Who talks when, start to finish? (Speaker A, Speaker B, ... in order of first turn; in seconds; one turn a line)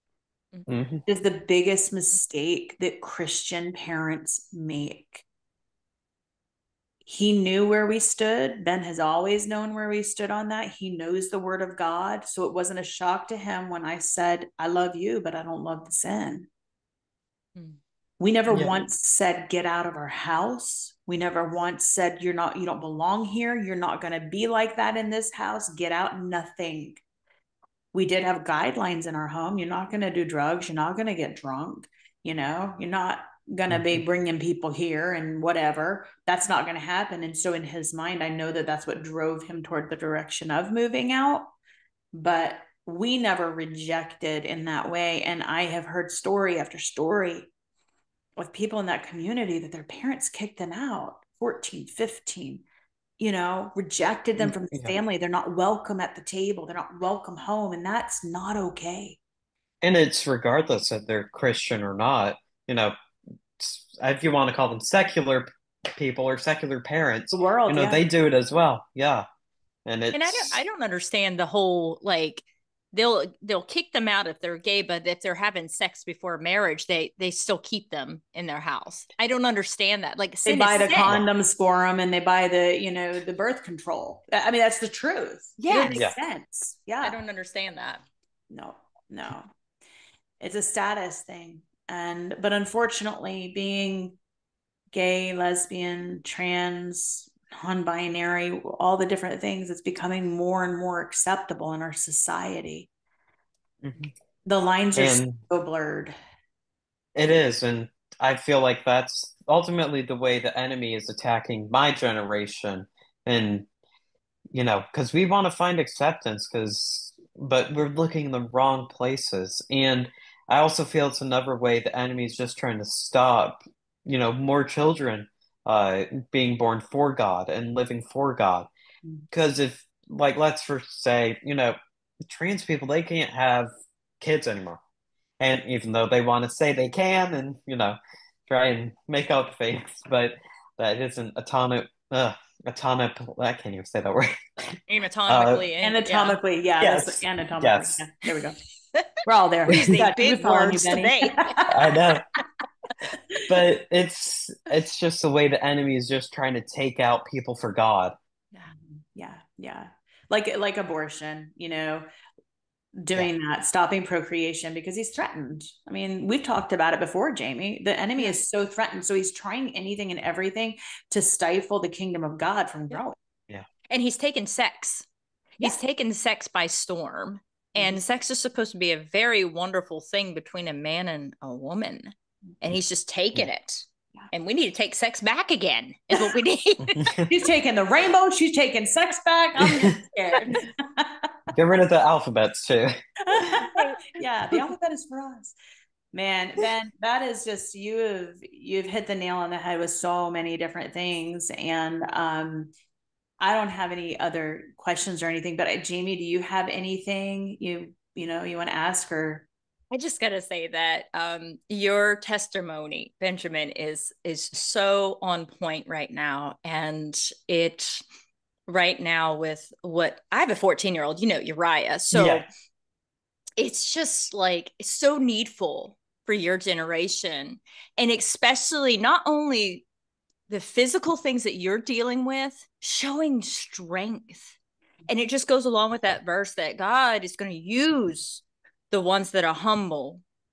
Speaker A: 0.7-1.0
Speaker B: 1.1-5.2
Speaker B: 7.1-16.5
Speaker B: 18.2-27.0
Speaker B: 27.9-41.5
Speaker A: 33.7-34.0
Speaker B: 42.1-47.5
Speaker B: 48.4-52.6
Speaker B: 53.2-59.2
Speaker A: 54.4-55.0
Speaker A: 59.8-62.9
Speaker A: 63.6-69.2
Speaker B: 67.3-68.0
Speaker A: 69.9-70.6
Speaker C: 70.1-81.1
Speaker B: 80.5-87.2
Speaker C: 85.6-86.0
Speaker A: 85.9-86.2
Speaker C: 87.0-88.0
Speaker B: 88.5-89.5
Speaker B: 90.4-94.2
Speaker B: 94.9-102.9
Speaker A: 103.8-104.1
Speaker B: 104.5-106.1
Speaker A: 105.0-105.4
Speaker A: 107.2-113.7
Speaker A: 114.5-128.7
Speaker A: 129.3-134.8
Speaker A: 135.4-144.8
Speaker C: 144.9-146.4
Speaker A: 145.3-145.7
Speaker B: 145.8-148.6
Speaker A: 146.8-148.0
Speaker B: 149.2-151.7
Speaker A: 149.7-150.0
Speaker C: 149.8-151.6
Speaker A: 151.7-152.2
Speaker A: 153.5-158.2
Speaker B: 158.7-162.1
Speaker B: 163.0-173.2
Speaker C: 173.9-175.1
Speaker C: 175.6-187.2
Speaker A: 187.0-187.3
Speaker B: 187.3-191.3
Speaker A: 191.5-192.9
Speaker B: 193.3-195.6
Speaker C: 193.8-194.0
Speaker B: 196.1-202.7
Speaker B: 203.4-209.5
Speaker C: 209.9-218.0
Speaker C: 218.7-222.5
Speaker A: 222.1-222.4
Speaker C: 223.6-229.9
Speaker C: 230.5-234.6
Speaker C: 235.1-240.2